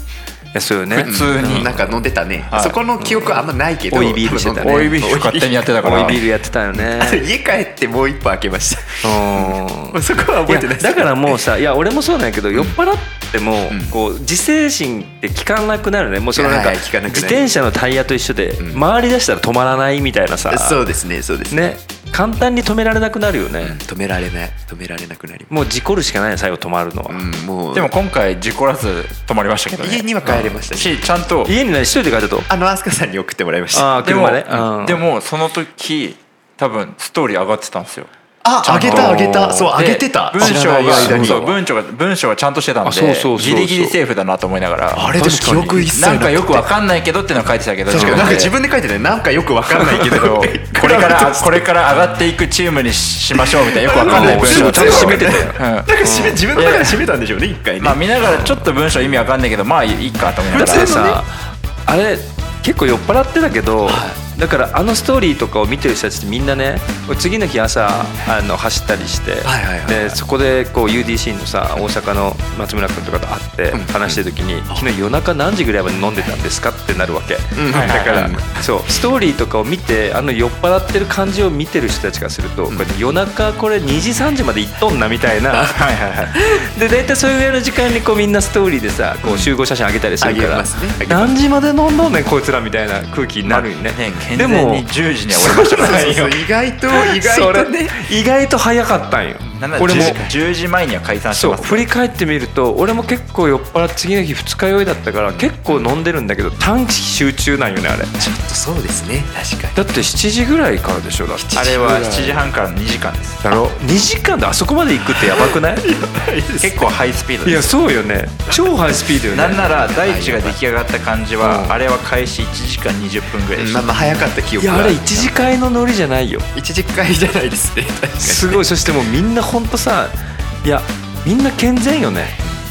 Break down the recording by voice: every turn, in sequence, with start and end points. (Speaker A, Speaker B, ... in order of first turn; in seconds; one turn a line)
Speaker A: 0.5-1.8
Speaker B: 0.9-6.1
Speaker C: 1.0-1.7
Speaker C: 2.5-2.8
Speaker A: 3.0-5.1
Speaker C: 4.6-6.2
Speaker A: 5.8-7.2
Speaker B: 6.7-11.4
Speaker A: 9.0-20.8
Speaker B: 13.7-13.9
Speaker B: 16.3-17.5
Speaker B: 18.6-18.8
Speaker B: 20.5-21.6
Speaker A: 21.5-23.8
Speaker B: 23.6-25.5
Speaker A: 25.5-27.2
Speaker B: 27.1-27.9
Speaker C: 27.7-30.1
Speaker B: 29.8-31.1
Speaker A: 30.2-30.6
Speaker C: 30.7-31.5
Speaker A: 31.4-32.5
Speaker B: 32.5-34.0
Speaker A: 33.7-35.0
Speaker C: 34.0-38.1
Speaker B: 38.4-41.4
Speaker C: 38.6-45.1
Speaker A: 38.7-39.8
Speaker A: 40.4-41.6
Speaker A: 42.8-44.0
Speaker B: 44.9-46.6
Speaker A: 45.1-45.9
Speaker C: 45.9-48.5
Speaker B: 47.9-51.6
Speaker A: 47.9-48.4
Speaker C: 49.7-55.9
Speaker B: 53.3-58.0
Speaker A: 54.0-56.4
Speaker C: 56.5-57.0
Speaker C: 57.8-61.0
Speaker B: 60.5-61.2
Speaker A: 60.5-85.8
Speaker B: 63.9-64.2
Speaker B: 69.4-70.2
Speaker B: 73.7-74.8
Speaker B: 77.5-78.6
Speaker C: 77.7-78.4
Speaker C: 85.6-86.4
Speaker A: 86.4-96.3
Speaker B: 89.2-89.5
Speaker B: 90.2-91.3
Speaker C: 93.4-96.3
Speaker B: 95.4-98.0
Speaker A: 96.9-100.2
Speaker B: 99.5-100.4
Speaker C: 99.6-101.9
Speaker A: 101.3-108.2
Speaker B: 105.3-105.9
Speaker B: 108.2-109.8
Speaker A: 109.7-112.0
Speaker B: 111.3-112.4
Speaker C: 111.5-113.4
Speaker A: 113.4-115.9
Speaker B: 115.1-116.8
Speaker C: 116.6-117.7
Speaker A: 117.4-119.7
Speaker C: 119.3-124.0
Speaker B: 119.7-120.6
Speaker A: 121.4-121.8
Speaker B: 123.5-125.5
Speaker A: 124.6-126.5
Speaker B: 126.5-128.8
Speaker A: 128.2-132.4